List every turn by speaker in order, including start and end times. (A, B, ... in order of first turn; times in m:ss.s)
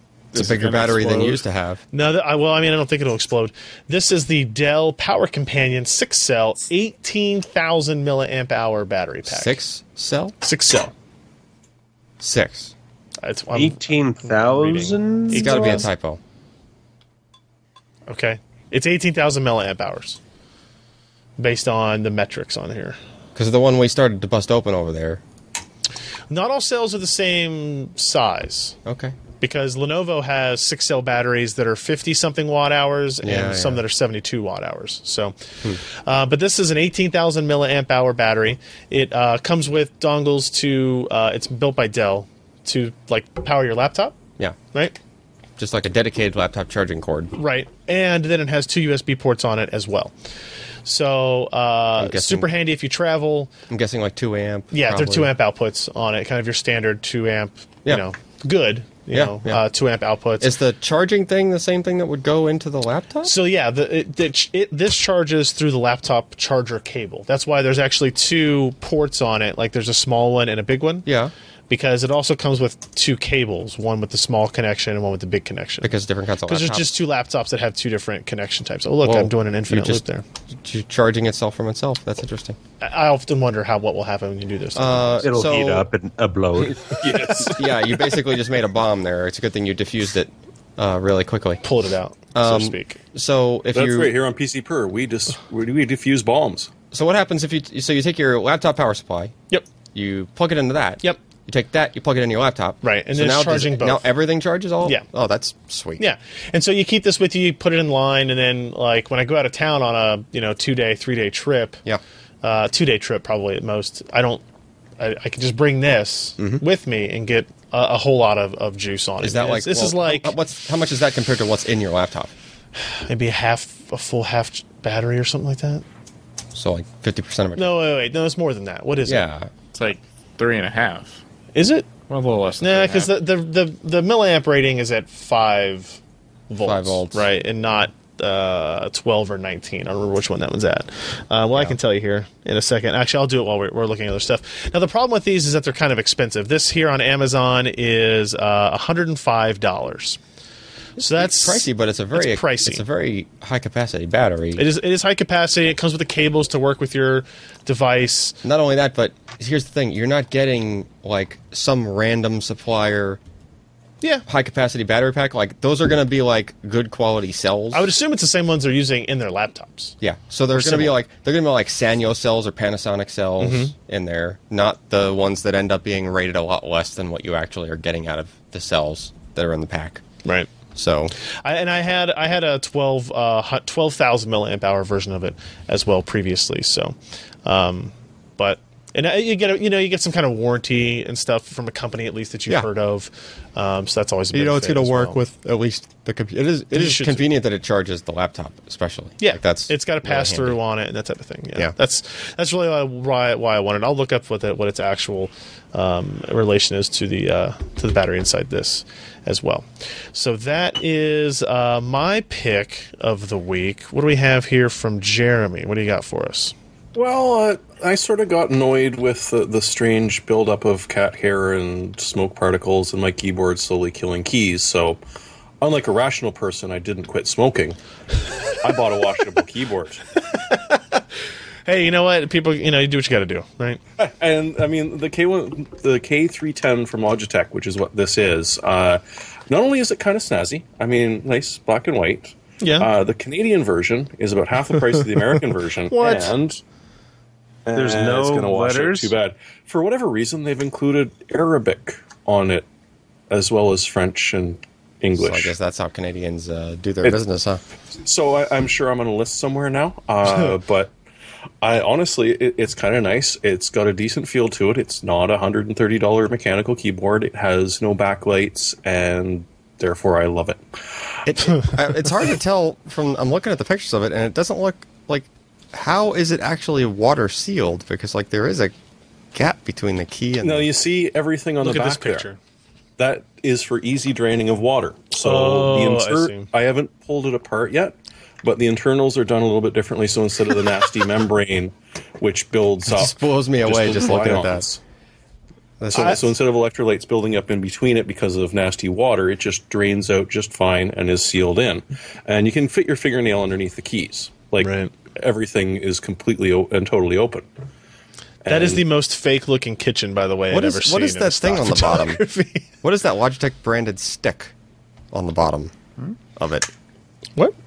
0:00.3-0:01.4 A
0:00.3-0:01.8 B
0:01.9-0:09.6 C
0:09.3-0:10.4 B
0:10.4-0:10.9 C
0:12.2-0:12.7 B
0:13.2-0:15.9 C
0:13.5-0:15.9 D
0:15.3-0:16.2 B
0:18.1-0:20.2 C
0:21.4-0:23.0 C
0:23.4-0:25.2 B
0:26.3-0:28.8 C
0:28.8-0:29.2 B
0:29.4-0:44.2 C
0:33.2-0:33.8 B
0:45.6-0:47.3 B
0:47.4-0:50.1 C
0:50.8-0:53.5 C
0:52.0-0:52.5 B
0:53.7-0:55.3 B
0:54.7-1:00.5 C
0:59.1-0:59.6 B
1:00.4-1:03.3 B
1:03.2-1:11.1 C
1:11.0-1:11.3 B
1:11.7-1:16.0 C
1:15.8-1:17.0 B
1:16.5-1:20.2 C
1:19.0-1:20.0 B
1:20.6-1:22.6 B
1:22.8-1:25.4 C
1:24.8-1:25.9 B
1:25.2-1:27.5 D
1:26.9-1:27.8 E
1:27.4-1:31.6 B
1:31.6-1:33.0 C
1:32.3-1:34.1 B
1:33.7-1:36.7 E
1:36.9-1:39.3 B
1:39.9-1:46.0 B
1:42.8-1:44.1 C
1:46.0-1:51.8 C
1:52.4-1:54.4 C
1:55.0-2:00.4 C
1:59.2-2:02.3 B
2:03.1-2:05.8 C
2:06.5-2:07.8 B
2:07.6-2:09.2 C
2:09.0-2:09.5 B
2:09.7-2:11.2 A
2:11.6-2:11.9 C
2:12.1-2:13.2 A
2:12.6-2:30.2 C
2:16.6-2:17.3 B
2:31.0-2:34.7 B
2:31.0-2:32.8 C
2:34.6-2:38.4 C
2:38.4-2:43.2 B
2:44.3-2:47.9 B
2:47.7-2:50.0 C
2:50.0-3:00.0 B
2:50.5-2:51.0 C
2:53.4-2:53.7 C
3:00.8-3:01.1 B
3:01.2-3:15.2 C
3:14.3-3:20.6 B
3:16.7-3:17.3 C
3:19.2-3:36.5 C
3:37.0-3:45.0 E
3:45.6-3:47.8 E
3:48.5-3:50.0 E
3:50.3-3:51.0 C
3:51.7-3:53.8 C
3:54.0-4:06.6 E
4:02.6-4:02.9 C
4:05.9-4:06.3 C
4:07.6-4:12.7 E
4:07.7-4:09.1 D
4:13.3-4:15.5 E
4:15.2-4:17.6 B
4:18.0-4:20.9 E
4:21.6-4:30.6 E
4:31.2-4:38.7 B
4:39.3-4:40.7 B
4:40.4-4:42.3 E
4:41.6-4:42.4 C
4:43.0-4:54.8 E
4:45.2-4:46.5 C
4:52.9-4:54.7 B
4:55.8-4:56.3 B
4:55.9-5:07.5 E
4:55.9-4:56.2 C
5:04.6-5:04.9 C
5:08.4-5:08.8 E
5:08.5-5:12.6 C
5:10.5-5:12.2 B
5:12.8-5:14.5 B
5:15.1-5:15.7 B
5:16.4-5:16.7 B